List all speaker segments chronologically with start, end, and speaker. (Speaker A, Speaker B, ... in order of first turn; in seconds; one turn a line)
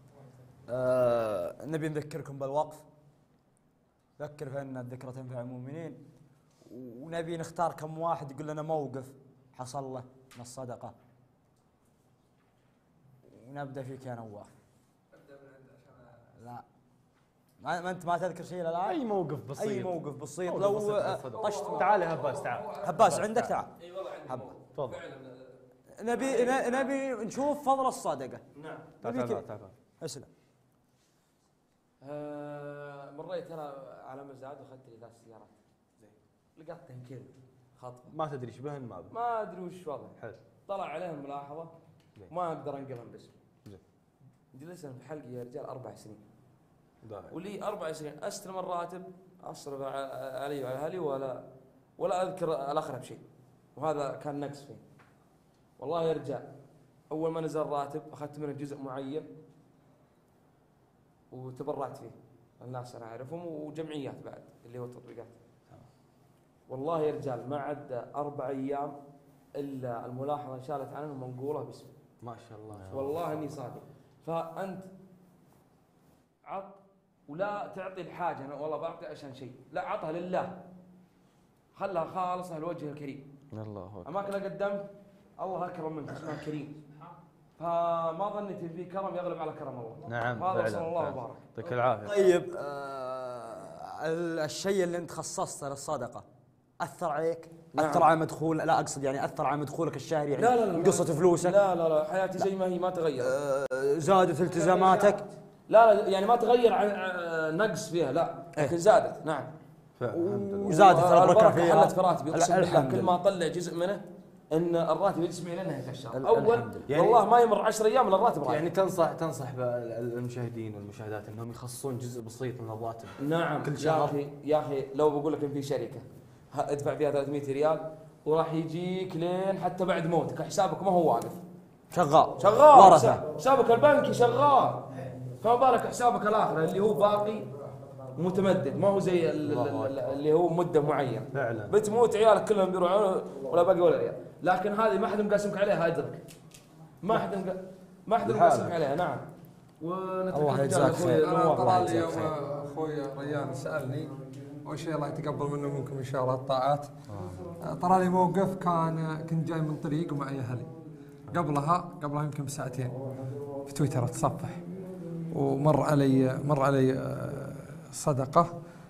Speaker A: 0.7-2.9
Speaker A: 4.2-6.0
Speaker A: 6.6-10.9
Speaker A: 13.3-14.5
Speaker B: 15.4-15.7
Speaker A: 16.4-16.6
Speaker A: 17.6-19.0
Speaker C: 18.9-23.6
Speaker A: 19.5-21.9
Speaker B: 21.8-22.6
Speaker A: 22.8-23.7
Speaker B: 23.8-25.6
Speaker A: 24.3-24.5
Speaker C: 24.7-25.0
Speaker A: 26.0-28.4
Speaker B: 26.1-26.9
Speaker B: 28.5-29.0
Speaker C: 29.0-29.7
Speaker A: 29.0-29.4
Speaker A: 30.0-30.3
Speaker B: 32.0-35.5
Speaker B: 36.6-38.1
Speaker C: 38.1-39.1
Speaker B: 39.1-41.7
Speaker B: 42.3-43.3
Speaker B: 44.5-46.2
Speaker C: 47.0-47.3
Speaker B: 47.3-51.4
Speaker B: 52.0-53.2
Speaker B: 53.8-54.8
Speaker B: 55.8-56.5
Speaker B: 57.1-59.3
Speaker B: 61.3-65.3
Speaker B: 66.7-69.0
Speaker B: 69.5-71.9
Speaker C: 72.2-73.4
Speaker B: 72.9-74.9
Speaker B: 76.5-76.8
Speaker B: 77.3-80.6
Speaker B: 81.8-83.2
Speaker C: 83.5-84.1
Speaker B: 84.0-84.8
Speaker B: 85.4-86.8
Speaker B: 87.6-91.7
Speaker C: 90.1-92.3
Speaker A: 92.1-96.2
Speaker A: 96.8-101.6
Speaker B: 97.8-98.1
Speaker B: 100.3-103.3
Speaker A: 103.2-105.2
Speaker B: 104.5-109.5
Speaker C: 110.0-110.8
Speaker A: 110.1-113.2
Speaker B: 110.7-118.7
Speaker A: 116.1-116.9
Speaker C: 116.9-117.2
Speaker C: 118.5-124.0
Speaker B: 123.2-131.4
Speaker A: 123.8-124.1
Speaker A: 131.9-133.2
Speaker B: 132.4-137.5
Speaker B: 138.2-146.2
Speaker C: 139.4-140.2
Speaker C: 141.3-141.7
Speaker B: 147.0-149.2
Speaker C: 148.2-148.8
Speaker B: 149.8-152.3
Speaker A: 150.3-152.3
Speaker D: 151.2-154.1
Speaker D: 154.7-156.9
Speaker D: 157.6-160.7
Speaker D: 161.3-163.0
Speaker D: 163.7-164.6
Speaker D: 165.3-168.5